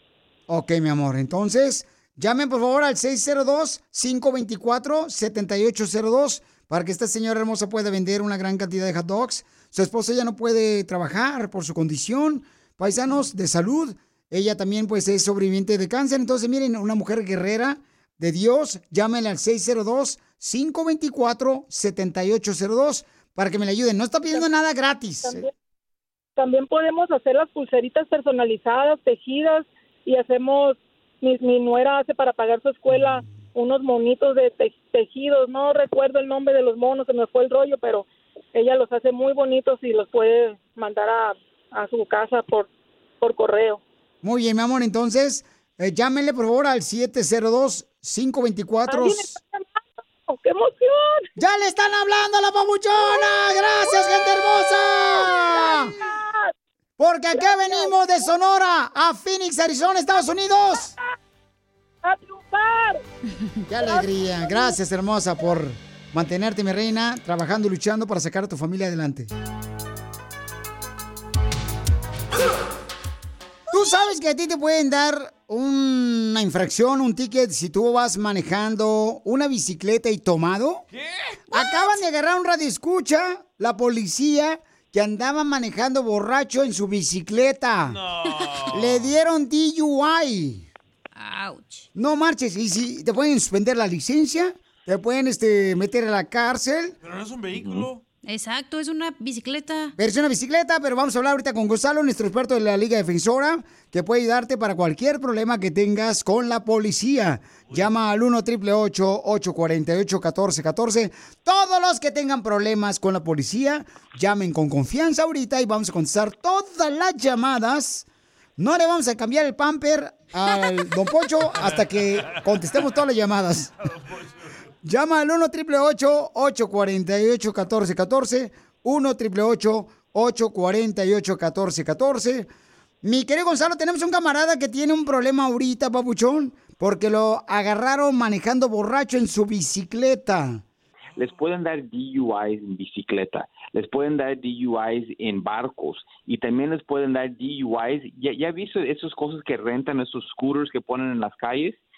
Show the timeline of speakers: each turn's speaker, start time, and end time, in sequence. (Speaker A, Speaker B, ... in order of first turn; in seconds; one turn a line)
Speaker A: 0.5-25.4
Speaker B: 26.4-42.7
Speaker B: 43.2-43.8
Speaker A: 44.2-49.3
Speaker B: 48.9-51.3
Speaker A: 51.4-55.9
Speaker B: 53.8-56.5
Speaker A: 57.0-60.9
Speaker B: 57.3-58.2
Speaker B: 62.0-63.0
Speaker A: 63.7-69.3
Speaker B: 63.9-64.7
Speaker A: 73.7-80.8
Speaker C: 80.9-81.4
Speaker A: 81.5-88.0
Speaker C: 87.9-89.1
Speaker A: 88.7-90.7
Speaker D: 91.2-91.9
Speaker A: 91.9-96.9
Speaker C: 97.0-98.0
Speaker D: 98.2-99.9
Speaker A: 100.0-118.1
Speaker A: 118.6-123.7
Speaker C: 121.5-122.3
Speaker C: 123.8-124.5
Speaker A: 124.8-132.5
Speaker A: 133.0-140.6
Speaker E: 141.2-151.8